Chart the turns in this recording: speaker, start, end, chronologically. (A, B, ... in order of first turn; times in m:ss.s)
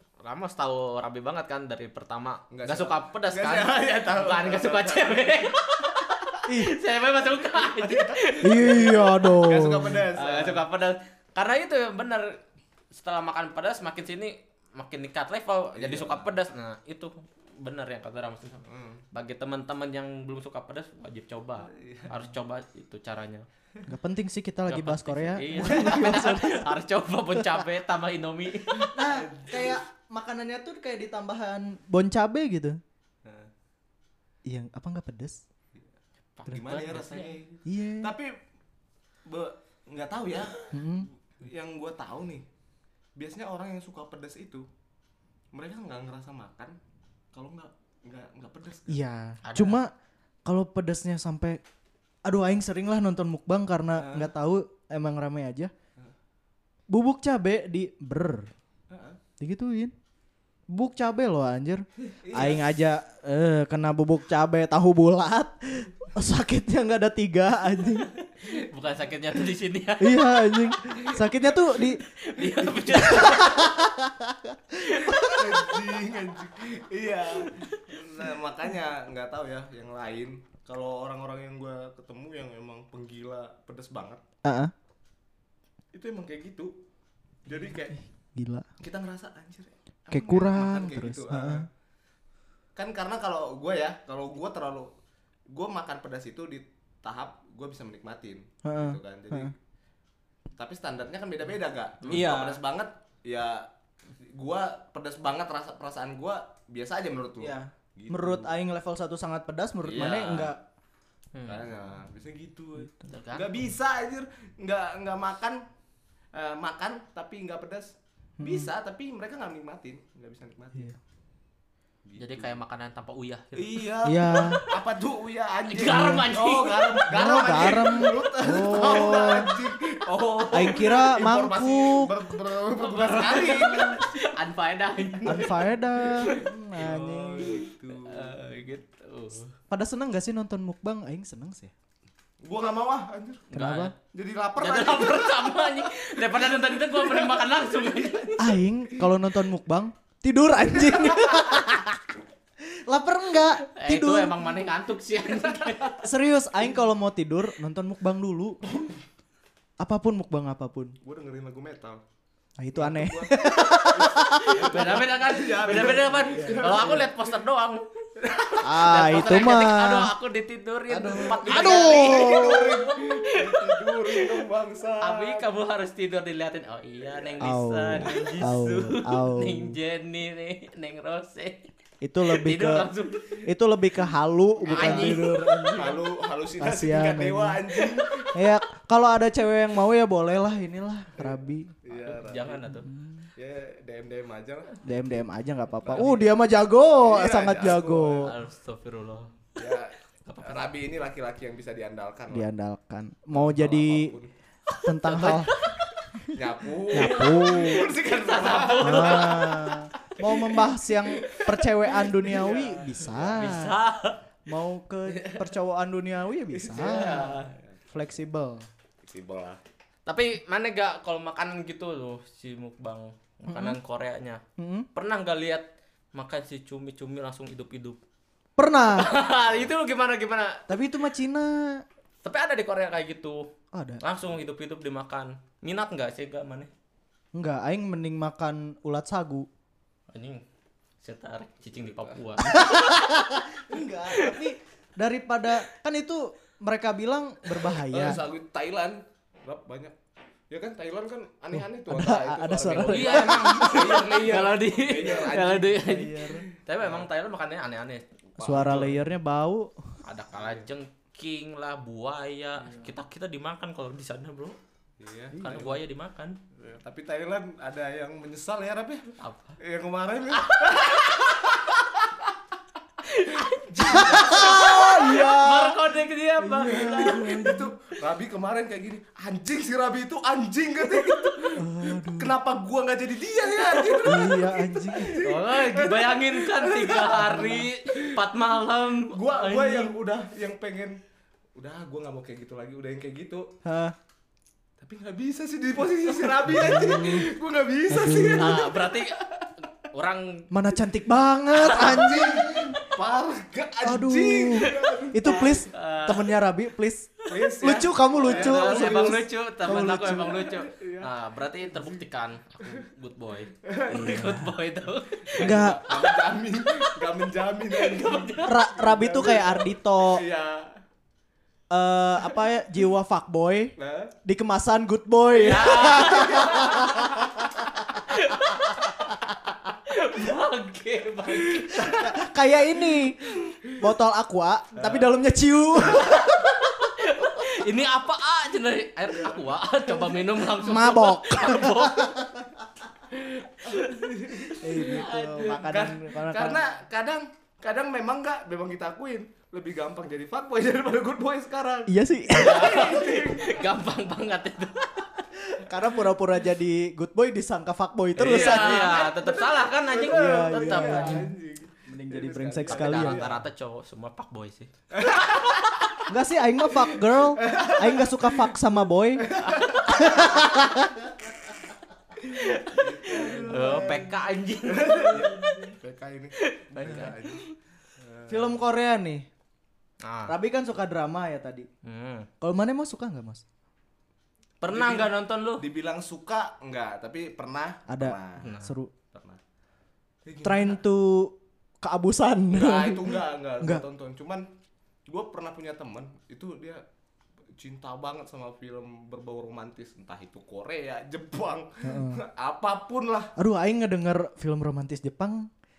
0:00.2-0:09.3 A
0:02.5-0:05.4 B
0:06.5-0:06.8 C
0:07.4-0:10.6 B
0:08.4-0:10.1 C
0:10.1-0:12.4 A
0:12.9-0:23.4 A
0:15.7-0:16.3 B
0:18.6-0:19.0 B
0:21.6-0:22.2 B
0:23.8-0:26.7 C
0:24.7-0:29.0 A
0:25.7-0:26.0 B
0:28.7-0:29.8 B
0:28.9-0:32.8 C
0:33.2-0:33.5 B
0:34.4-0:35.4 C
0:36.4-0:37.4 A
0:36.5-0:38.3 B
0:37.6-0:38.1 C
0:39.3-0:42.4 B
0:40.7-0:41.1 C
0:43.2-0:44.6 B
0:45.5-0:46.8 B
0:47.3-0:49.0 B
0:48.9-0:49.9 C
0:49.4-0:49.8 A
0:50.4-0:51.6 C
0:52.2-0:55.7 C
0:54.0-0:54.3 B
0:56.9-0:58.5 C
0:58.9-0:59.2 B
0:59.4-0:59.9 C
1:00.7-1:08.1 C
1:02.0-1:02.8 B
1:08.2-1:10.6 A
1:10.0-1:12.0 C
1:10.9-1:11.3 B
1:12.0-1:13.8 A
1:12.9-1:15.7 C
1:14.8-1:15.4 A
1:15.2-1:24.2 B
1:17.5-1:17.8 A
1:24.4-1:24.7 C
1:25.9-1:26.7 B
1:27.4-1:28.0 B
1:28.4-1:28.7 C
1:28.8-1:31.7 B
1:30.1-1:31.7 C
1:32.8-1:34.9 B
1:35.5-1:39.6 B
1:38.6-1:39.5 C
1:40.6-1:43.7 B
1:42.1-1:42.6 C
1:44.2-1:48.5 B
1:47.4-1:50.6 C
1:49.8-1:50.5 B
1:51.4-1:51.6 A
1:51.4-1:55.6 B
1:53.1-1:53.5 A
1:56.3-2:00.9 B
1:58.4-1:58.7 C
2:02.0-2:02.6 B
2:02.2-2:03.8 A
2:03.6-2:14.1 B
2:04.0-2:04.6 C
2:05.7-2:07.7 A
2:05.8-2:06.3 C
2:07.1-2:09.5 C
2:10.5-2:12.2 C
2:12.8-2:16.5 A
2:15.3-2:17.6 C
2:15.3-2:18.4 B
2:17.4-2:19.6 A
2:19.7-2:21.7 C
2:22.4-2:23.5 B
2:23.5-2:23.9 A
2:23.5-2:23.9 C
2:24.1-2:27.5 B
2:24.6-2:28.5 A
2:28.4-2:34.4 C
2:30.9-2:31.4 B
2:33.7-2:36.0 A
2:36.0-2:38.8 C
2:39.8-2:41.0 C
2:41.0-2:42.0 B
2:42.6-2:44.6 C
2:42.7-2:47.3 B
2:44.0-2:47.8 A
2:48.2-2:48.7 B
2:48.4-2:54.4 A
2:48.6-2:50.1 C
2:50.9-2:52.8 C
2:51.1-2:55.4 B
2:55.0-3:01.7 A
2:57.1-2:57.4 B
2:57.4-2:59.8 C
2:58.0-2:58.2 B
3:02.0-3:02.9 C
3:02.2-3:03.5 A
3:03.4-3:06.0 C
3:04.6-3:08.4 B
3:04.7-3:05.9 A
3:06.6-3:07.7 C
3:08.3-3:11.7 C
3:11.2-3:12.7 B
3:11.9-3:12.9 A
3:12.7-3:13.3 C
3:13.4-3:14.8 B
3:14.8-3:18.3 C
3:15.8-3:16.3 B
3:15.9-3:16.2 A
3:17.0-3:18.3 B
3:18.2-3:20.7 A
3:19.6-3:22.5 B
3:22.3-3:24.2 C
3:23.3-3:24.3 B
3:24.8-3:25.5 C
3:24.8-3:26.1 A
3:26.3-3:29.8 B
3:26.9-3:27.9 C
3:26.9-3:29.7 A
3:28.8-3:33.8 C
3:30.3-3:33.7 B
3:33.4-3:34.2 A
3:34.4-3:37.3 C
3:35.1-3:35.4 B
3:36.5-3:37.9 B
3:36.8-3:37.6 A
3:37.9-3:38.7 C
3:39.0-3:39.6 B
3:40.1-3:44.4 A
3:43.5-3:43.8 C
3:44.6-3:44.9 C
3:44.9-3:48.0 A
3:48.6-3:49.1 C
3:48.9-3:50.7 A
3:49.3-3:49.7 B
3:50.7-3:51.8 C
3:52.2-3:53.5 A
3:53.7-3:54.0 C
3:54.0-3:56.7 A
3:57.3-3:59.5 C
4:00.1-4:00.4 A
4:01.0-4:03.3 A
4:01.8-4:02.2 B
4:02.4-4:08.2 C
4:03.7-4:04.3 B
4:04.1-4:04.4 A
4:07.7-4:09.9 B
4:10.5-4:15.9 B
4:11.6-4:13.9 C
4:12.8-4:19.0 A
4:15.8-4:16.4 C
4:16.8-4:17.1 B
4:18.4-4:19.0 B
4:18.4-4:19.9 C
4:20.0-4:24.6 A
4:20.3-4:20.7 B
4:25.0-4:25.8 B
4:25.3-4:25.7 C
4:25.4-4:26.4 A
4:26.6-4:29.1 B
4:29.2-4:29.6 A
4:29.6-4:32.3 B
4:30.4-4:31.5 A
4:33.0-4:37.3 A
4:33.4-4:35.2 B
4:33.9-4:35.8 C
4:36.4-4:48.2 B
4:36.6-4:37.7 C
4:41.6-4:42.3 C
4:43.7-4:44.2 A
4:44.0-4:45.2 C
4:45.1-4:49.9 A
4:49.1-4:51.0 B
4:51.6-4:53.5 B
4:53.6-4:53.9 C
4:54.8-4:59.5 B
4:56.3-4:57.3 C
4:57.9-4:58.7 C
4:58.4-4:59.2 A
4:59.8-5:00.5 A
5:00.5-5:02.8 C
5:01.6-5:02.1 A
5:01.6-5:05.6 B
5:03.8-5:10.4 C
5:05.2-5:06.3 A
5:07.3-5:09.2 B
5:08.2-5:16.8 A
5:10.0-5:11.1 B
5:11.7-5:12.0 B
5:13.6-5:14.3 B
5:13.9-5:14.5 C
5:15.3-5:20.8 B
5:15.4-5:15.8 C
5:17.7-5:18.6 A
5:18.4-5:20.2 C
5:21.7-5:27.5 C
5:23.8-5:24.1 B
5:25.4-5:27.3 A
5:25.9-5:27.1 B
5:27.8-5:32.1 A
5:31.6-5:32.1 B
5:31.7-5:36.6 C
5:33.5-5:33.7 B
5:34.7-5:35.1 B
5:36.0-5:42.2 A
5:39.1-5:40.1 B
5:40.5-5:42.5 C
5:43.1-5:53.7 B
5:43.6-5:45.6 A
5:44.6-5:46.7 C
5:51.9-5:52.8 C
5:52.3-5:55.1 A
5:55.4-5:59.0 C
5:58.2-6:01.3 A
5:58.2-6:03.4 B
6:00.1-6:01.3 C
6:01.9-6:03.2 C
6:02.7-6:05.2 A
6:04.9-6:06.1 B
6:06.1-6:11.1 C
6:07.4-6:08.6 B
6:09.2-6:10.6 B
6:09.4-6:10.4 A
6:12.2-6:15.3 A
6:12.3-6:17.4 B
6:13.2-6:14.0 C
6:16.4-6:17.5 A
6:18.0-6:18.6 B
6:18.3-6:19.3 C
6:20.0-6:20.4 A
6:20.3-6:21.7 C
6:21.8-6:22.3 A
6:22.4-6:23.4 C
6:24.6-6:25.6 A
6:24.7-6:28.6 B
6:27.9-6:28.9 C
6:28.4-6:28.7 A
6:29.1-6:29.4 B
6:30.2-6:30.8 B
6:30.4-6:33.8 C
6:32.5-6:34.4 B
6:35.1-6:36.8 B
6:37.6-6:43.3 B
6:41.8-6:42.2 C
6:43.4-6:45.5 C